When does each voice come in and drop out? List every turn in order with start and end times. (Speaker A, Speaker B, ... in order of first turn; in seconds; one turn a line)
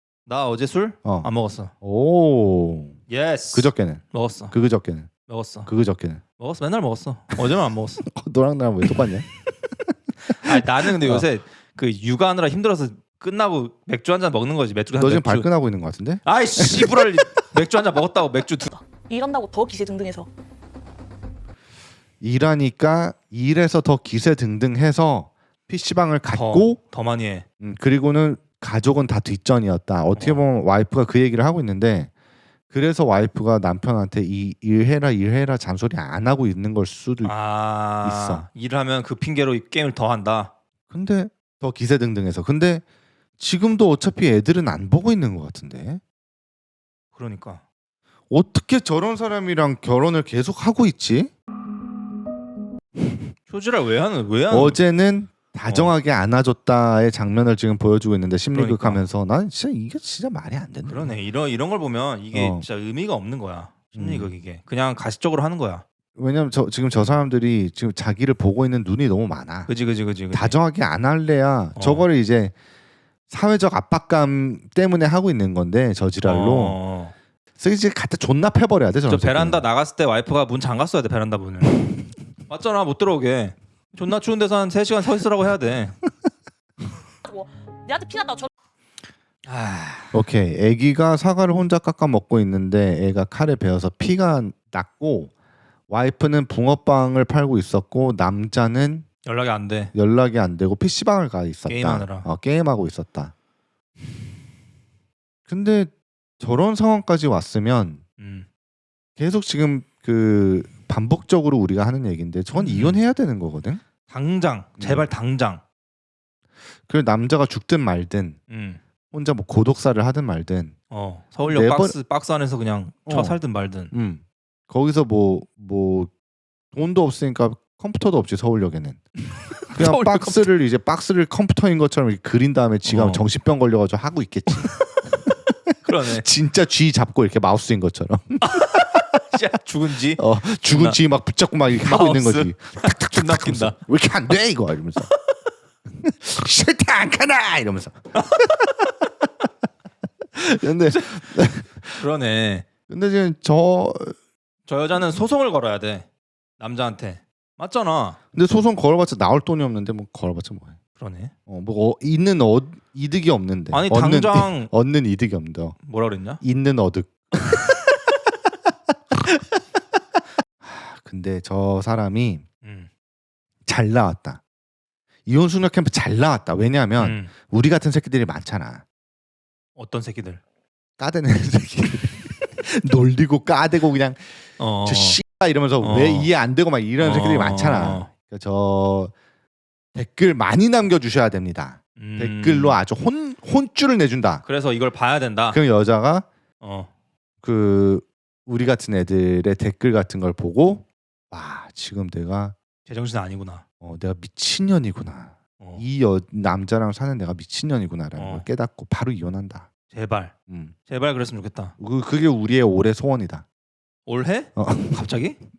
Speaker A: 0.3-1.7
Speaker B: 1.0-1.3
Speaker B: 1.8-3.0
Speaker A: 3.1-4.5
Speaker B: 3.5-5.1
Speaker A: 5.3-5.7
Speaker B: 5.7-6.2
Speaker A: 6.4-8.0
Speaker B: 8.1-11.3
Speaker A: 10.3-15.5
Speaker B: 14.9-17.3
Speaker A: 16.2-18.7
Speaker C: 18.7-20.3
Speaker B: 22.2-26.8
Speaker A: 26.3-27.5
Speaker B: 27.6-32.1
Speaker A: 30.2-30.4
Speaker B: 32.7-37.4
Speaker A: 37.2-40.5
Speaker B: 38.0-38.5
Speaker B: 40.9-42.8
Speaker B: 43.4-46.0
Speaker A: 47.1-47.6
Speaker B: 48.3-51.3
Speaker A: 53.5-54.8
Speaker B: 54.5-61.1
Speaker A: 55.6-55.9
Speaker A: 58.5-59.0
Speaker A: 60.9-65.8
Speaker B: 62.3-62.6
Speaker B: 64.0-64.3
Speaker B: 66.2-69.7
Speaker A: 69.7-70.6
Speaker B: 70.3-72.5
Speaker A: 71.8-72.1
Speaker B: 73.3-76.8
Speaker A: 76.2-77.1
Speaker B: 77.6-79.6
Speaker A: 79.1-81.8
Speaker A: 82.5-86.0
Speaker C: 87.2-88.5
Speaker A: 89.5-90.1
Speaker B: 90.1-95.3
Speaker B: 95.9-99.1
Speaker A: 99.2-99.9
Speaker B: 99.9-103.3
Speaker A: 101.7-102.3
Speaker B: 105.5-108.0
Speaker A: 108.2-108.5
Speaker B: 109.2-113.8
Speaker A: 112.5-113.0
Speaker A: 114.1-115.6
Speaker B: 114.8-115.0
Speaker B: 116.9-118.4
Speaker A: 118.5-118.8
Speaker B: 119.1-120.8
Speaker A: 120.9-123.9
Speaker B: 121.5-122.0
Speaker B: 123.1-123.4
Speaker B: 123.9-126.1
Speaker B: 126.7-129.0
Speaker A: 129.7-130.5
Speaker B: 129.7-134.7
Speaker A: 132.9-133.2
Speaker B: 135.5-139.0
Speaker A: 135.8-136.3
Speaker A: 138.4-141.0
Speaker B: 140.2-145.1
Speaker A: 141.8-143.8
Speaker B: 146.0-148.9
Speaker A: 148.2-148.7
Speaker B: 150.3-152.1
Speaker A: 152.0-152.7
Speaker B: 152.9-154.2
Speaker A: 154.7-156.1
Speaker A: 156.6-158.2
Speaker B: 158.3-160.8
Speaker A: 161.0-161.3
Speaker B: 161.5-165.8
Speaker A: 163.7-164.7
Speaker A: 165.8-166.4
Speaker B: 166.4-168.1
Speaker B: 169.1-169.4
Speaker B: 170.6-172.5
Speaker A: 172.6-172.9
Speaker B: 173.7-174.4
Speaker B: 175.3-178.8
Speaker A: 177.0-177.3
Speaker A: 179.8-180.4
Speaker B: 181.0-189.1
Speaker A: 184.6-185.2
Speaker A: 185.8-186.3
Speaker A: 187.0-188.1
Speaker B: 189.9-194.4
Speaker A: 192.0-192.8
Speaker A: 194.4-195.6
Speaker B: 195.5-196.3
Speaker A: 196.6-196.9
Speaker B: 197.4-202.6
Speaker A: 202.9-203.6
Speaker B: 203.8-209.7
Speaker A: 208.2-208.5
Speaker A: 209.9-210.3
Speaker B: 210.5-210.7
Speaker A: 210.9-211.8
Speaker B: 211.8-213.4
Speaker A: 214.1-215.4
Speaker B: 214.6-215.0